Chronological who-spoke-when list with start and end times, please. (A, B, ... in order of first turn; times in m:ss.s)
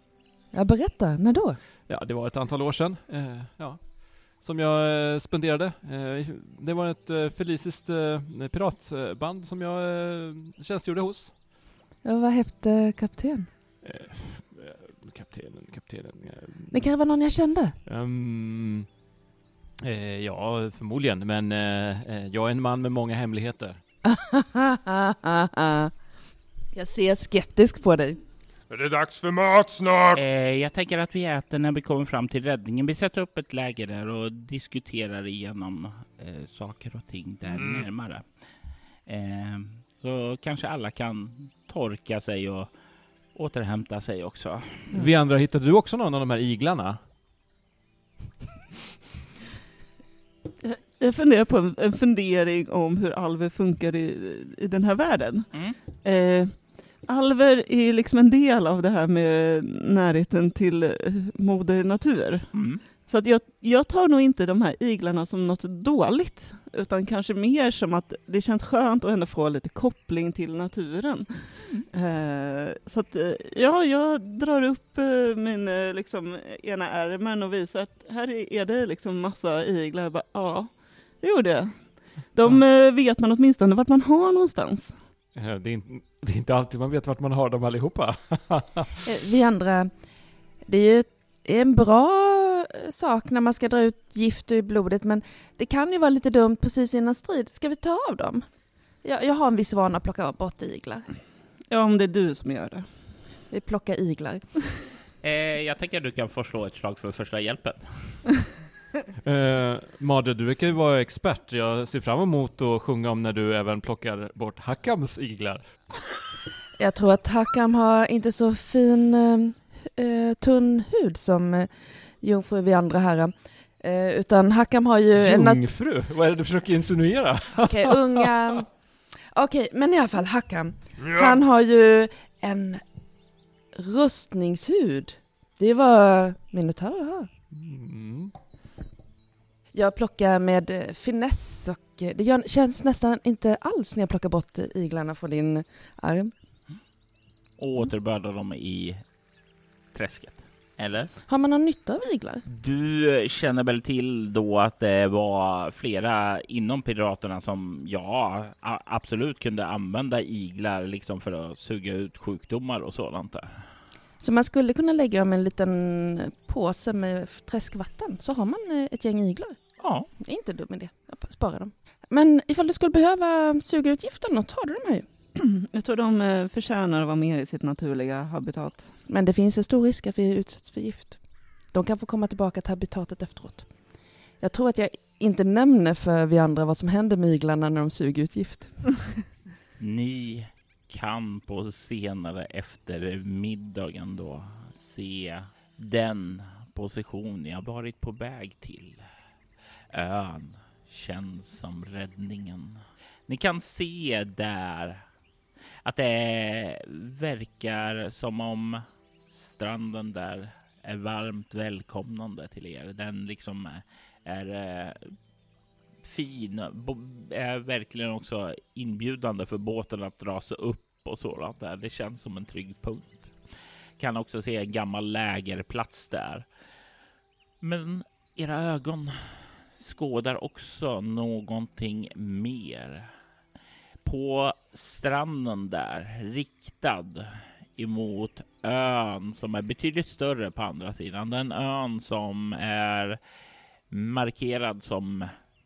0:00.5-0:01.6 A
0:01.9-0:11.4 B
0:12.0-0:13.5 A
0:13.8-0:16.9 B
0:16.7-0:17.7 A
0:17.8-0:18.9 B
0:19.8-0:23.8 B
0:24.0-0:25.9 A
0:26.7-0:28.2 A
0:28.7-0:30.2 C
0:30.1-0:38.2 D
0:37.5-0:37.9 C
0:39.0-0:42.7 D
0:43.3-0:44.9 D
0:44.9-0:47.0 B
0:50.6-0:55.5 E
0:56.0-1:25.0 E
1:02.5-1:02.8 D
1:25.3-1:29.0 B
1:29.0-1:29.9 A
1:30.6-1:38.4 A
1:39.0-1:41.0 A
1:41.7-1:42.9 E
1:43.5-1:44.4 A
1:45.2-1:48.2 D
1:49.2-1:56.0 B
1:56.8-2:05.7 A
2:05.2-2:08.2 B
2:07.7-2:08.7 A
2:09.3-2:12.8 A
2:11.0-2:11.4 C
2:13.8-2:17.3 A
2:17.5-2:18.3 B
2:19.7-2:26.3 A
2:27.6-2:29.0 D
2:29.9-2:31.1 D
2:31.2-2:32.4 A
2:32.4-2:43.6 D
2:44.2-2:49.6 A
2:49.8-2:50.1 D
2:50.2-2:55.1 A
2:55.4-2:58.9 E
2:59.1-3:01.2 A
3:01.7-3:03.7 A
3:04.4-3:08.9 A
3:09.8-3:19.0 D
3:19.9-3:25.0 D
3:25.8-3:35.0 D
3:36.0-3:43.3 D
3:44.0-3:46.4 D
3:47.6-3:49.2 D
3:49.8-3:53.1 D
3:54.0-4:03.2 D
4:03.9-4:05.3 D